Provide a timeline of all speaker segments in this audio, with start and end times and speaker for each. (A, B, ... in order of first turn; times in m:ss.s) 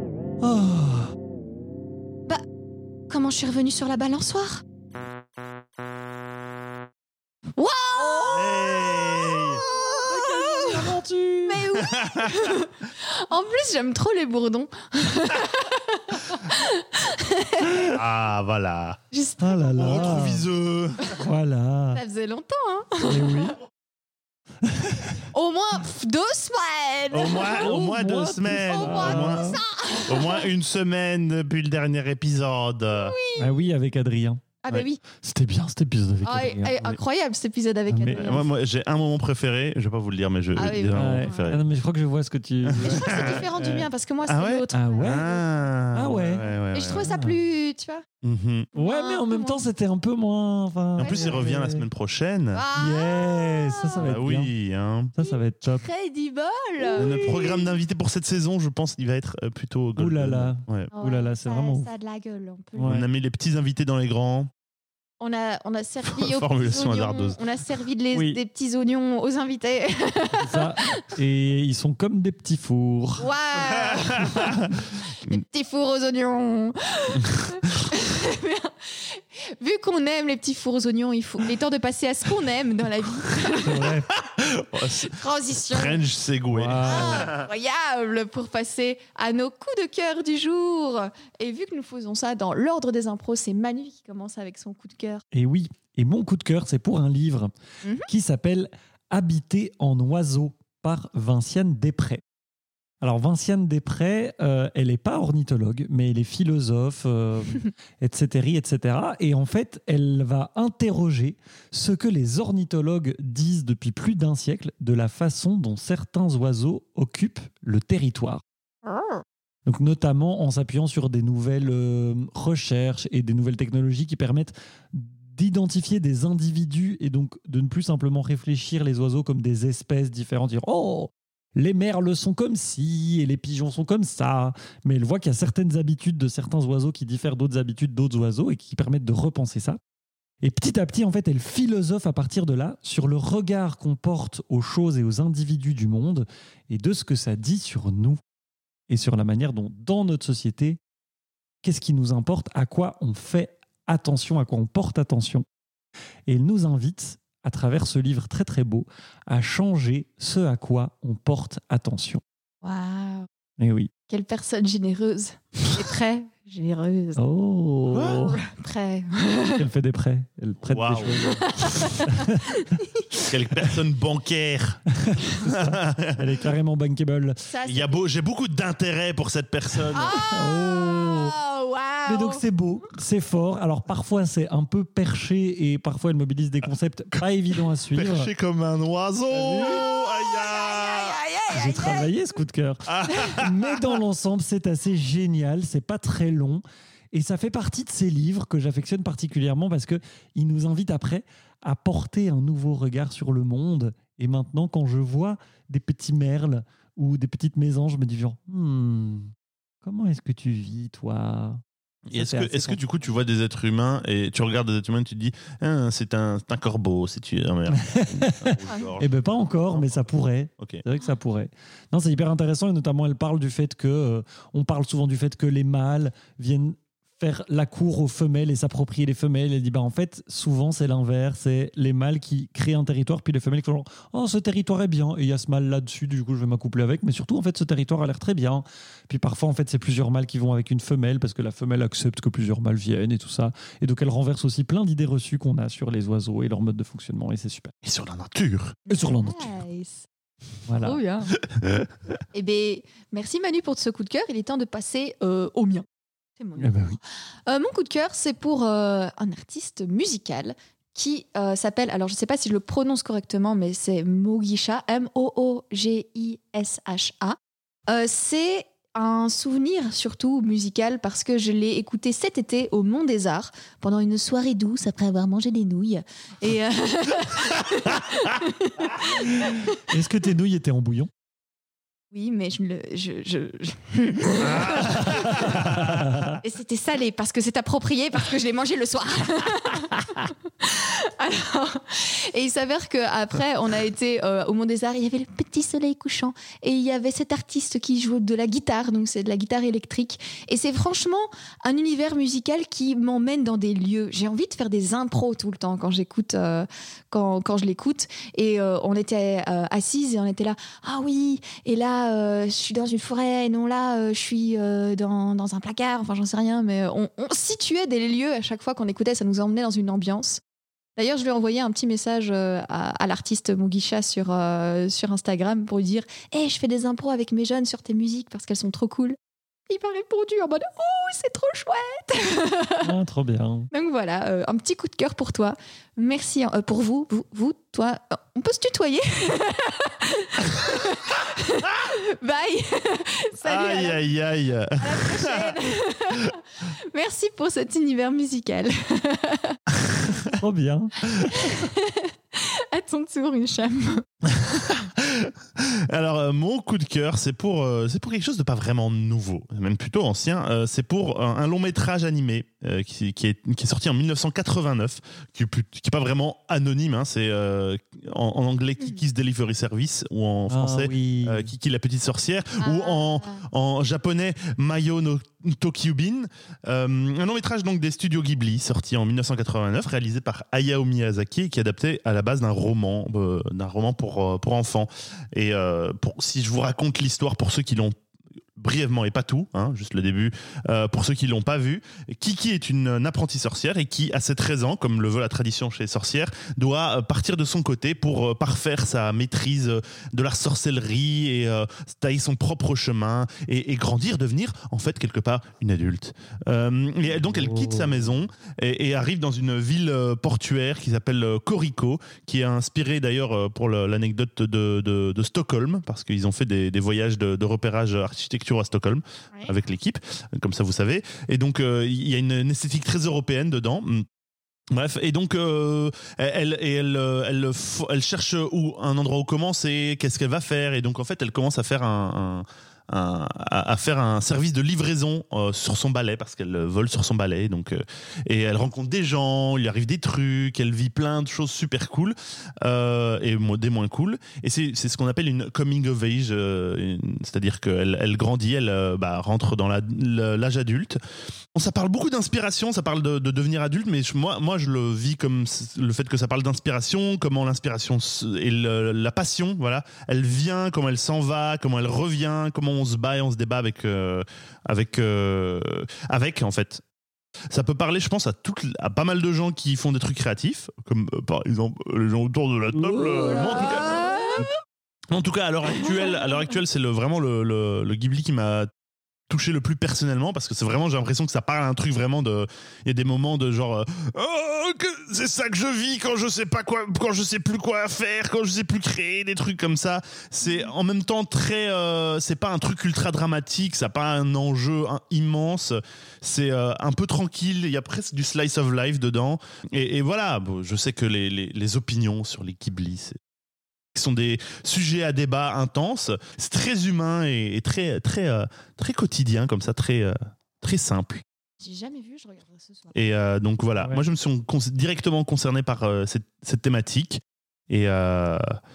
0:00.4-0:01.1 A
0:03.1-0:04.6 B
0:07.6-0:17.9 B
0:08.2-0:09.6 C
0:09.7-0:11.6 A
0:11.8-0:12.6 C
0:17.6-0:18.0 A
0:17.9-0:19.0 C
0:19.1-0:20.1 B
0:19.4-0:20.5 A
0:19.8-0:21.2 C
0:21.2-0:22.0 A
0:21.9-0:23.5 B
0:23.0-0:23.6 A
0:24.6-0:25.2 A
0:25.3-0:27.7 B
0:27.1-0:33.2 C
0:27.4-0:29.6 A
0:28.6-0:30.5 B
0:32.9-0:33.5 B
0:33.4-0:34.4 A
0:34.6-0:35.0 B
0:35.1-0:37.0 A
0:36.2-0:38.5 B
0:37.9-0:38.3 A
0:38.1-0:41.6 C
0:40.6-0:41.5 B
0:40.9-0:43.9 A
0:42.6-0:43.5 C
0:42.8-0:45.4 B
0:44.2-0:47.0 C
0:44.7-0:45.2 A
0:45.9-0:47.4 A
0:46.7-0:48.0 B
0:48.2-0:48.7 C
0:48.7-0:49.6 B
0:48.7-0:51.8 A
0:51.0-0:52.6 C
0:51.0-0:51.4 B
0:52.5-0:54.1 B
0:52.7-0:54.5 A
0:54.0-0:55.1 C
0:55.1-0:55.8 A
0:55.2-0:57.6 B
0:56.9-0:57.5 A
0:56.9-1:00.9 C
1:00.0-1:01.9 A
1:00.9-1:03.0 B
1:02.8-1:03.0 A
1:02.8-1:04.5 C
1:05.2-1:11.0 B
1:06.1-1:07.4 C
1:08.1-1:08.4 A
1:10.3-1:13.3 A
1:13.2-1:14.6 B
1:13.7-1:14.7 C
1:15.2-1:24.0 B
1:17.4-1:17.7 C
1:23.5-1:24.1 A
1:24.1-1:25.1 C
1:24.9-1:26.0 B
1:25.7-1:27.5 C
1:26.5-1:27.3 A
1:26.8-1:35.2 B
1:35.3-1:37.5 A
1:38.0-1:42.2 A
1:43.0-1:58.4 A
1:58.8-1:59.2 B
1:59.6-2:19.8 A
2:20.4-2:28.2 A
2:28.9-2:30.8 A
2:31.6-2:35.4 A
2:36.3-2:42.2 A
2:42.6-2:43.3 B
2:43.6-2:43.9 A
2:44.1-2:47.2 B
2:47.2-2:48.4 A
2:47.9-2:48.3 C
2:48.1-2:49.7 B
2:49.6-2:52.6 A
2:50.6-2:51.3 C
2:51.2-2:53.0 B
2:53.2-2:56.4 C
2:54.9-2:57.5 A
2:57.5-2:58.0 B
2:57.6-3:00.2 C
2:59.9-3:02.4 B
3:00.3-3:01.4 A
3:02.1-3:08.3 A
3:07.9-3:11.2 C
3:09.3-3:09.9 A
3:09.5-3:12.1 B
3:11.5-3:29.3 A
3:12.9-3:13.8 C
3:29.8-3:32.8 A
3:32.1-3:40.0 C
3:37.7-4:07.7 A
4:07.8-4:08.8 C
4:08.9-4:10.1 B
4:08.9-4:09.5 A
4:10.7-4:11.0 A
4:10.8-4:11.3 B
4:11.4-4:11.9 C
4:12.3-4:15.8 B
4:16.4-4:16.8 B
4:16.6-4:17.0 A
4:17.4-4:39.6 B
4:39.0-4:41.1 A
4:42.1-4:45.6 B
4:44.4-4:45.9 C
4:45.0-4:46.4 A
4:46.4-5:20.4 B
5:21.0-5:29.2 B
5:29.7-5:32.9 B
5:32.8-5:33.7 A
5:33.7-5:44.0 B
5:43.4-5:45.6 C
5:44.8-5:49.6 B
5:50.2-5:51.6 A
5:51.2-5:54.0 B
5:54.2-6:27.9 C
6:10.5-6:11.5 A
6:12.6-6:13.4 B
6:28.6-7:04.0 C
6:47.2-6:48.1 A
7:04.7-7:31.0 C
7:31.5-7:46.8 C
7:47.5-7:54.4 C
7:52.7-7:53.8 A
7:53.5-7:54.4 B
7:55.1-7:58.7 C
7:59.3-8:23.2 C
8:23.9-8:31.2 C
8:31.6-8:32.9 B
8:32.9-8:38.5 C
8:33.8-8:34.0 A